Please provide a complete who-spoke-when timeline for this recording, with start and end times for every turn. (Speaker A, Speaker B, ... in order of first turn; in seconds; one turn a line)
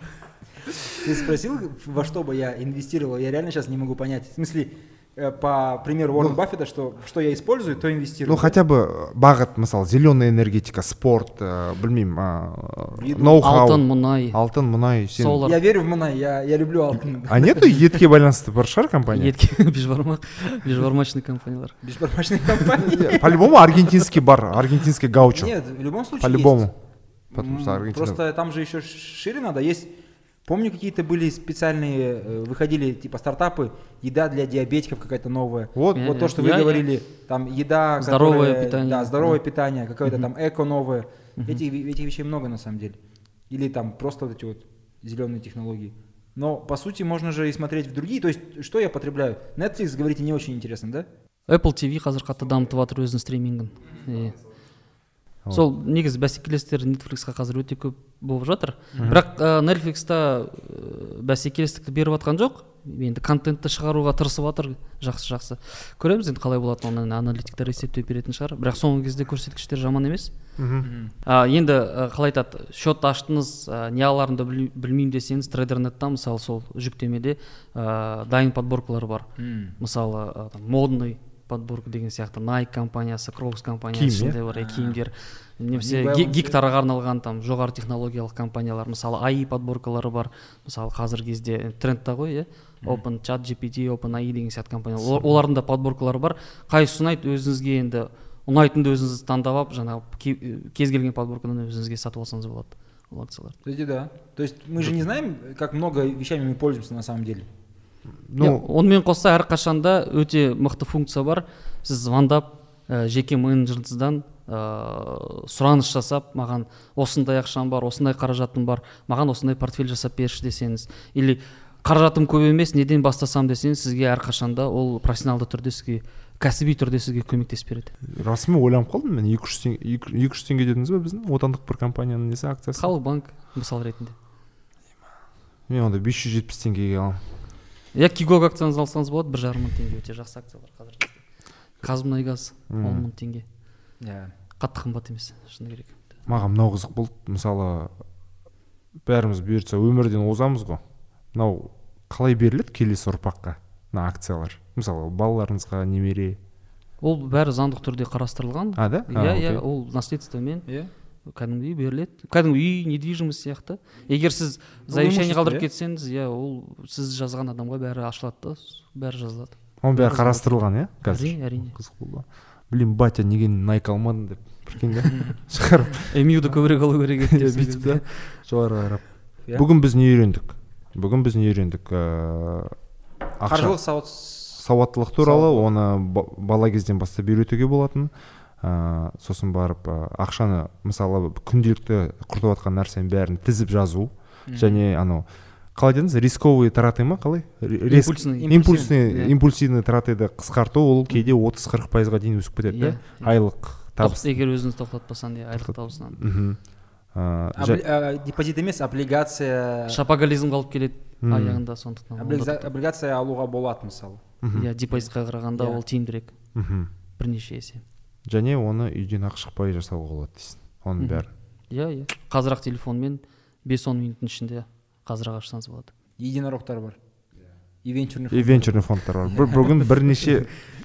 Speaker A: 0.9-8.6
Speaker B: 8.2-15.4
Speaker A: 12.9-13.4
Speaker C: 13.4-14.4
Speaker C: 15.2-15.6
Speaker A: 15.4-17.8
Speaker B: 17.3-19.3
Speaker C: 19.1-21.8
Speaker A: 21.8-23.4
Speaker B: 22.9-25.5
Speaker A: 25.3-26.7
Speaker B: 26.2-26.7
Speaker A: 27.3-29.9
Speaker B: 27.3-28.2
Speaker A: 30.5-43.0
Speaker B: 35.8-36.1
Speaker C: 35.9-36.8
Speaker C: 38.0-39.4
Speaker A: 43.5-51.1
Speaker C: 51.5-54.4
Speaker C: 55.5-70.3
Speaker B: 70.6-70.9
Speaker A: 70.8-71.1
Speaker C: 71.2-79.3
Speaker A: 79.4-79.8
Speaker C: 79.8-103.6
Speaker B: 83.9-84.4
Speaker A: 84.5-85.0
Speaker A: 85.8-86.6
Speaker A: 103.7-107.5
Speaker B: 108.3-108.7
Speaker C: 108.4-128.0
Speaker B: 128.1-132.9
Speaker C: 132.8-134.2
Speaker B: 135.7-137.2
Speaker C: 137.9-141.2
Speaker C: 141.8-143.4
Speaker B: 142.7-143.1
Speaker A: 144.0-144.3
Speaker C: 144.6-146.0
Speaker B: 146.3-147.9
Speaker B: 149.1-150.8
Speaker B: 151.3-156.4
Speaker C: 157.0-160.7
Speaker B: 158.8-159.6
Speaker C: 161.3-171.8
Speaker A: 164.9-165.7
Speaker B: 169.8-176.5
Speaker C: 176.1-178.2
Speaker B: 177.2-182.8
Speaker B: 183.4-183.8
Speaker A: 183.4-184.6
Speaker B: 184.6-204.4
Speaker A: 185.2-185.7
Speaker A: 194.5-194.8
Speaker C: 197.9-199.3
Speaker A: 198.4-198.9
Speaker C: 202.7-203.3
Speaker C: 204.0-206.2
Speaker B: 205.6-207.8
Speaker A: 207.6-210.0
Speaker C: 209.9-212.7
Speaker B: 211.2-211.6
Speaker A: 212.2-214.3
Speaker B: 214.4-214.7
Speaker C: 214.5-216.3
Speaker A: 214.9-215.8
Speaker B: 216.6-216.9
Speaker C: 217.2-217.8
Speaker B: 218.3-221.3
Speaker C: 221.0-225.9
Speaker A: 226.2-227.0
Speaker A: 227.8-229.7
Speaker B: 228.3-230.7